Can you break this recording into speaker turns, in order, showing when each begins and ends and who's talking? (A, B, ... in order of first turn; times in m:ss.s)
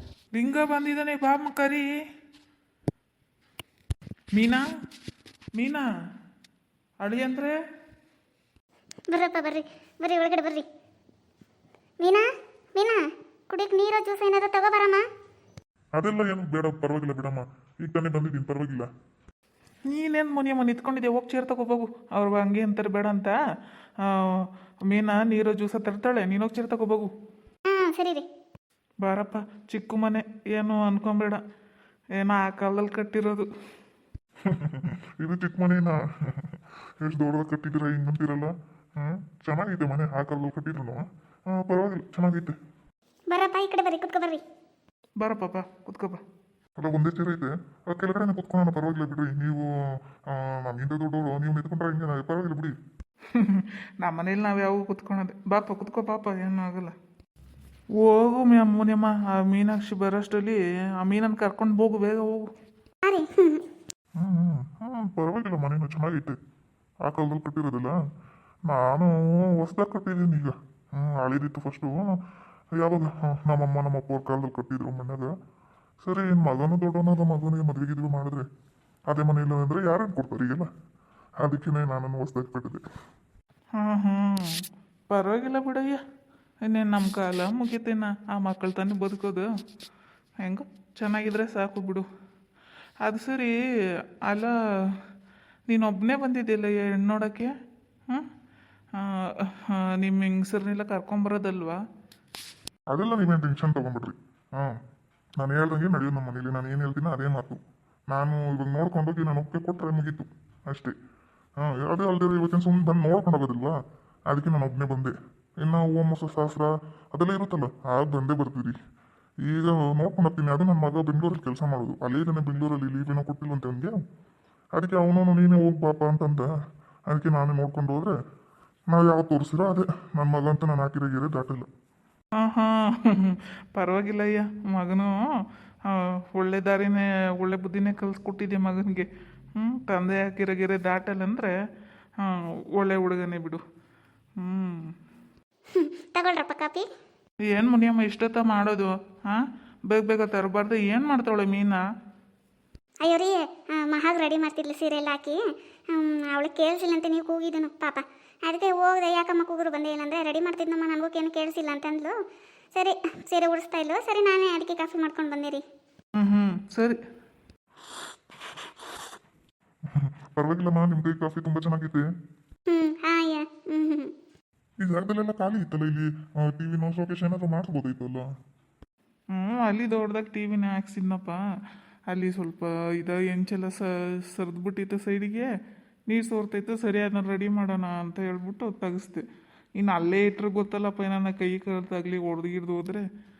0:00.3-0:01.9 A
0:04.3-0:04.6 A
0:05.5-0:05.9 A
0:07.0-0:07.6 A
0:09.1-0:10.6 B
0:12.0-0:15.0 B
0:15.9-0:18.9 C
0:19.9-0:23.4 A
0:24.0-0:27.1 A
0:27.7-0:28.2 B
0:29.0-0:31.4 A
0:32.2-0:33.5 A
0:34.4-0:42.6 C
0:43.3-0:44.4 B
0:45.2-0:46.2 A
0:46.8-0:52.7 C
0:53.3-0:56.9 A
0:58.0-1:02.4 A
1:03.0-1:03.6 B
1:04.2-1:06.4 C
1:07.0-1:07.9 C
1:08.6-1:12.2 C
1:12.7-1:15.3 C
1:16.0-1:18.4 C
1:19.1-1:20.7 C
1:21.4-1:22.8 C
1:23.8-1:24.6 A
1:25.1-1:26.0 A
1:26.6-1:29.5 A
1:30.4-1:32.1 A
1:33.0-1:33.6 A
1:34.3-1:34.5 A
1:35.7-1:37.5 A
1:39.0-1:41.8 A
1:42.9-1:44.7 C
1:45.4-1:50.9 C
1:51.6-1:53.7 C
1:54.3-1:58.8 C
1:59.4-2:03.9 C
2:04.7-2:06.5 C
2:07.1-2:08.1 C
2:08.9-2:11.7 C
2:12.4-2:15.3 A
2:15.9-2:21.5 A
2:22.2-2:23.6 A
2:24.4-2:24.9 A
2:25.7-2:26.9 B
2:27.4-2:31.8 A
2:33.0-2:35.4 B
2:35.9-2:42.2 B
2:42.7-2:45.6 B
2:46.2-2:47.0 A
2:49.9-2:52.0 C
2:52.7-2:54.1 B
2:54.8-2:58.3 C
2:59.3-3:01.4 A
3:02.1-3:05.5 A
3:06.1-3:09.2 A
3:09.8-3:13.0 A